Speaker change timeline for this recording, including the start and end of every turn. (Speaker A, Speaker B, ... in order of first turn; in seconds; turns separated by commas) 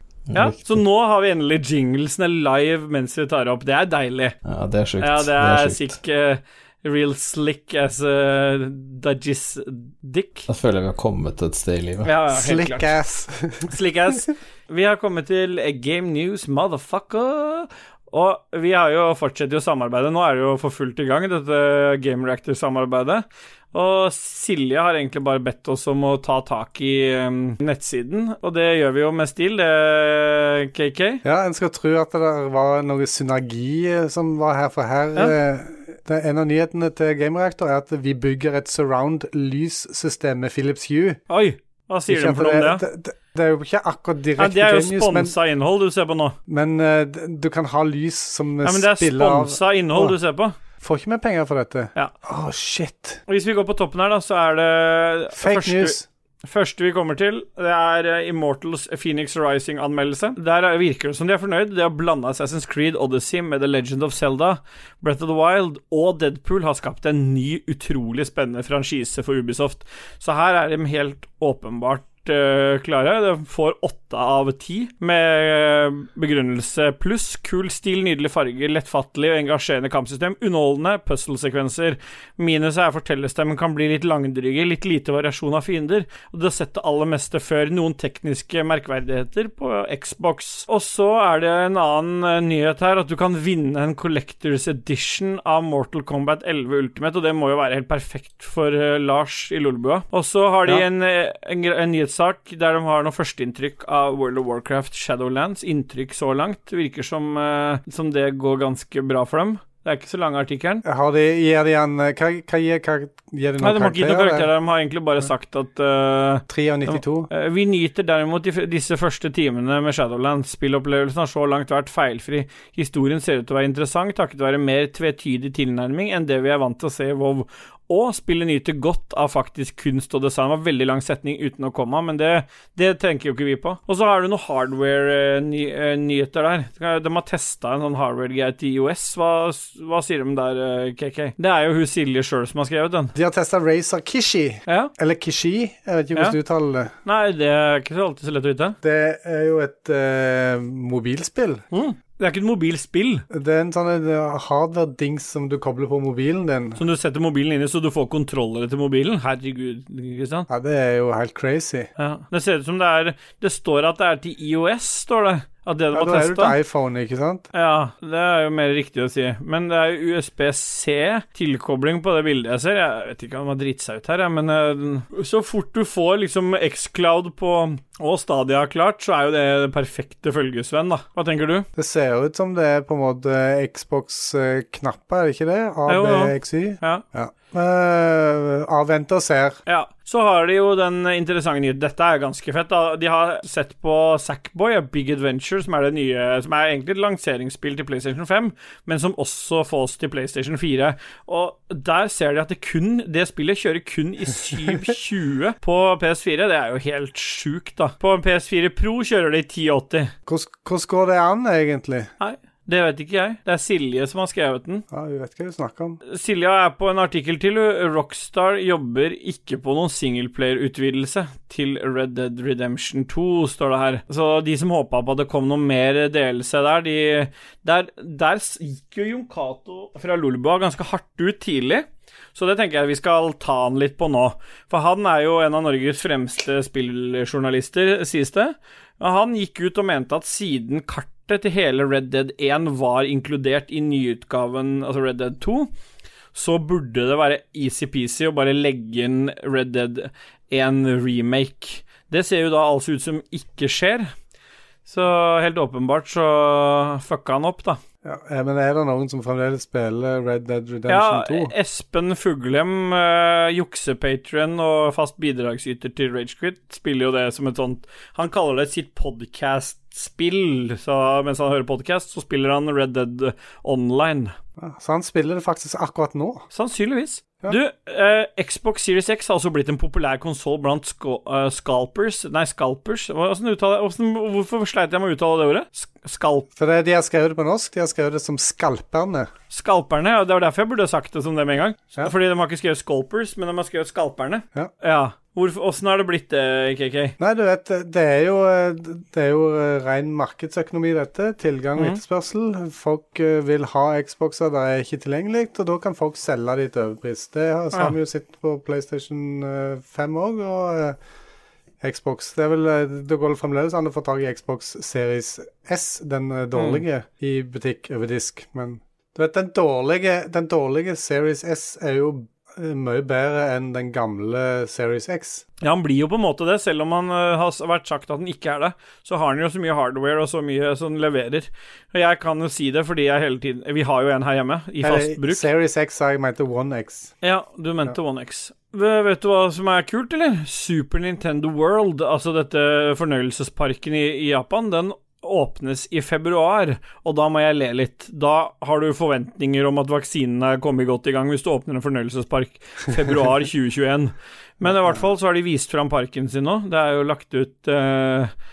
Speaker A: 0.3-0.8, Speaker B: 0.3-4.3, Speaker A: 4.5-6.0, Speaker B: 5.0-10.5, Speaker A: 10.5-12.1, Speaker B: 12.1-12.9, Speaker C: 12.3-13.7, Speaker B: 13.7-31.2, Speaker C: 31.2-41.2, Speaker B: 41.3-42.8, Speaker C: 42.1-45.3, Speaker B: 44.4-46.4, Speaker C: 46.5-50.2, Speaker B: 48.6-50.5, Speaker C: 50.8-53.2, Speaker B: 53.3-110.8, Speaker C: 55.4-56.1, Speaker C: 110.8-114.5, Speaker B: 113.6-143.1, Speaker C: 116.5-117.3, Speaker C: 143.2-146.9, Speaker B: 147.1-148.8, Speaker C: 148.8-151.6, Speaker B: 151.7-153.2, Speaker C: 153.3-156.8, Speaker B: 156.8-160.5, Speaker C: 160.5-161.9, Speaker B: 162.0-166.6, Speaker C: 165.9-167.5, Speaker B: 167.5-181.7, Speaker C: 181.8-189.6, Speaker B: 185.9-187.0, Speaker B: 189.7-210.1, Speaker C: 210.3-212.1, Speaker B: 212.2-214.8, Speaker C: 214.9-216.0, Speaker B: 216.1-245.7, Speaker B: 246.3-254.1, Speaker B: 254.9-257.8, Speaker C: 258.0-261.5, Speaker B: 260.9-274.3, Speaker C: 274.6-276.4, Speaker B: 276.5-286.5, Speaker C: 286.6-289.3, Speaker B: 289.5-297.1, Speaker C: 297.2-311.0, Speaker C: 311.8-325.5, Speaker B: 316.6-316.8, Speaker B: 325.6-335.5, Speaker C: 334.8-337.1, Speaker B: 337.2-358.3, Speaker C: 354.6-355.0